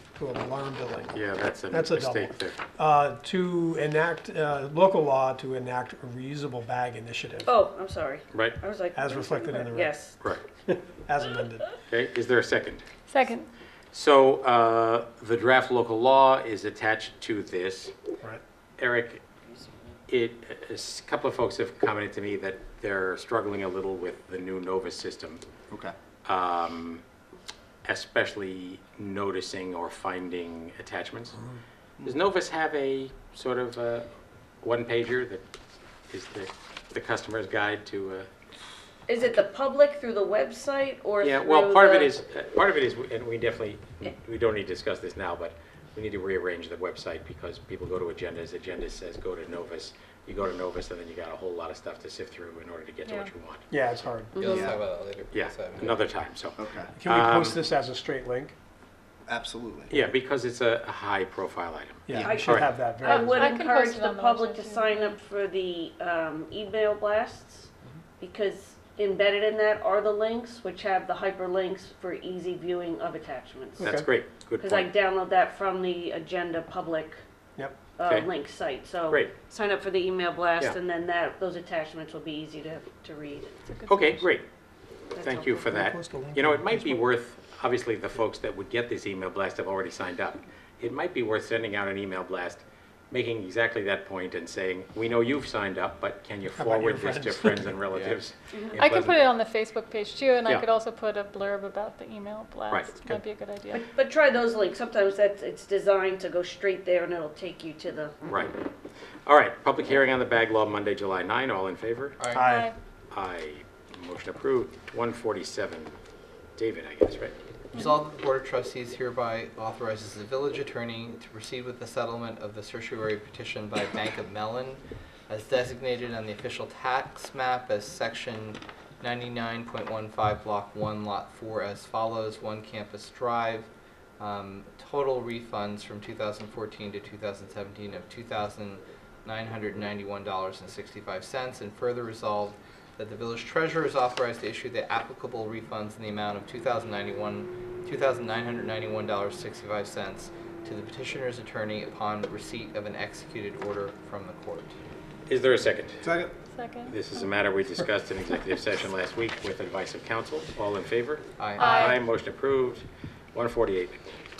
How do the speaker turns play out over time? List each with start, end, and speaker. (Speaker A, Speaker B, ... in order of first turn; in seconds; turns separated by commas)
Speaker A: 0.1-1.2, Speaker B: 1.1-2.6, Speaker A: 1.7-7.5, Speaker C: 7.5-10.2, Speaker A: 8.9-10.1, Speaker A: 10.7-11.7, Speaker B: 11.9-12.8, Speaker D: 13.1-13.5, Speaker B: 13.9-17.9, Speaker B: 18.8-19.2, Speaker B: 20.1-25.4, Speaker B: 26.2-27.0, Speaker B: 27.9-31.4, Speaker B: 32.0-34.1, Speaker B: 34.6-35.4, Speaker B: 36.1-38.3, Speaker C: 39.1-42.1, Speaker B: 41.2-53.6, Speaker A: 53.7-54.6, Speaker E: 54.4-56.1, Speaker F: 54.5-54.8, Speaker B: 55.3-57.6, Speaker F: 56.6-56.9, Speaker A: 57.0-58.5, Speaker F: 59.3-59.9, Speaker B: 59.9-62.7, Speaker A: 62.1-63.5, Speaker F: 62.1-62.5, Speaker C: 62.2-74.0, Speaker D: 63.0-65.2, Speaker A: 73.8-74.1, Speaker B: 73.8-74.9, Speaker C: 74.6-77.2, Speaker C: 78.0-83.5, Speaker B: 79.1-79.3, Speaker D: 83.7-84.1, Speaker B: 83.9-84.4, Speaker C: 85.2-85.6, Speaker B: 85.2-99.2, Speaker A: 85.7-87.0, Speaker A: 96.6-97.8, Speaker E: 97.9-98.2, Speaker D: 98.8-103.8, Speaker B: 102.7-103.0, Speaker C: 103.7-108.2, Speaker B: 108.3-108.6, Speaker B: 109.3-112.2, Speaker E: 112.2-112.5, Speaker A: 112.3-112.7, Speaker D: 112.4-112.8, Speaker B: 113.1-115.9, Speaker B: 116.6-117.4, Speaker E: 117.7-154.8, Speaker B: 155.3-156.1, Speaker F: 156.0-156.3, Speaker D: 156.5-157.0, Speaker B: 156.9-164.0, Speaker E: 161.4-161.7, Speaker D: 161.6-162.0